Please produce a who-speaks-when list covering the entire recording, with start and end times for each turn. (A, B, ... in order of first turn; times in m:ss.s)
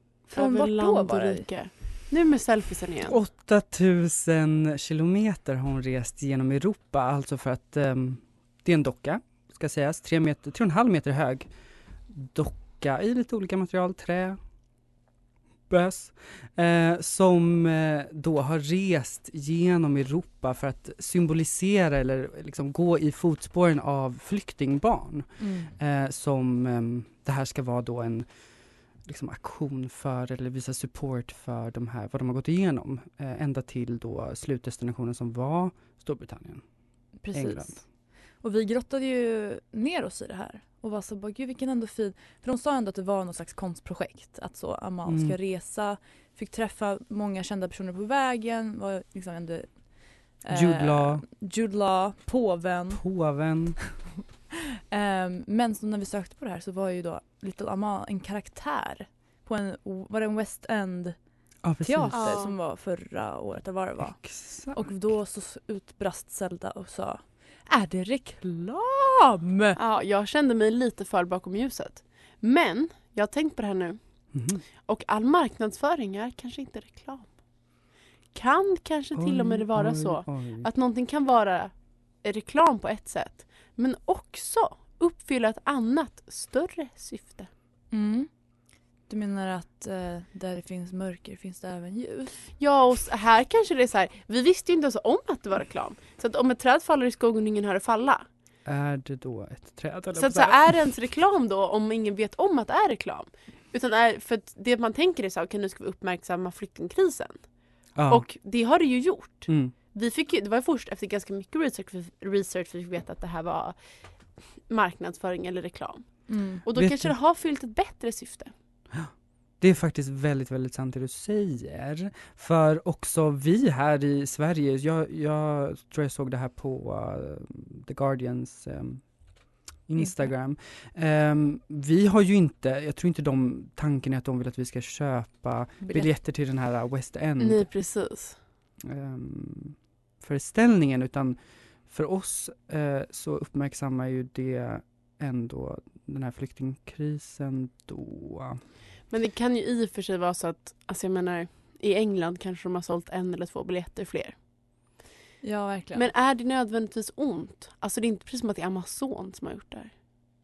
0:00.3-0:03.2 A
0:00.3-0:01.5 B
0:03.0-0:11.5 C
0:12.1-0:14.4 C
0:15.7-0:28.3 C
0:25.4-0:25.7 B
0:29.0-0:36.6 C
0:37.2-0:37.8 B
0:37.3-0:37.8 C
0:38.4-0:49.7 B
0:45.0-0:45.4 C
0:50.4-0:53.0 B
0:50.5-0:51.2 C
0:52.9-0:53.8 C
0:54.9-1:01.2 B
1:01.6-1:02.4 C
1:01.8-1:09.8 B
1:02.1-1:02.5 A
1:04.2-1:04.9 C
1:09.8-1:14.0 A
1:14.3-1:14.6 C
1:14.8-1:17.3 A
1:18.3-1:21.7 A
1:19.2-1:20.7 C
1:22.2-1:27.5 A
1:27.9-1:28.3 B
1:29.1-1:32.3 B
1:32.6-1:38.2 A
1:38.6-1:40.8 C
1:40.2-1:47.4 A
1:47.9-1:48.2 C
1:48.1-1:53.8 A
1:49.5-1:49.7 C
1:54.7-1:58.5 A
1:56.3-1:56.6 B
1:56.7-1:57.1 C
1:58.9-2:09.1 C
2:09.8-2:17.7 C
2:10.0-2:10.3 B
2:15.8-2:16.1 B
2:17.4-2:18.4 A
2:18.8-2:21.4 C
2:21.9-2:28.6 C
2:29.1-2:34.3 A
2:35.4-2:36.0 B
2:35.9-2:39.9 A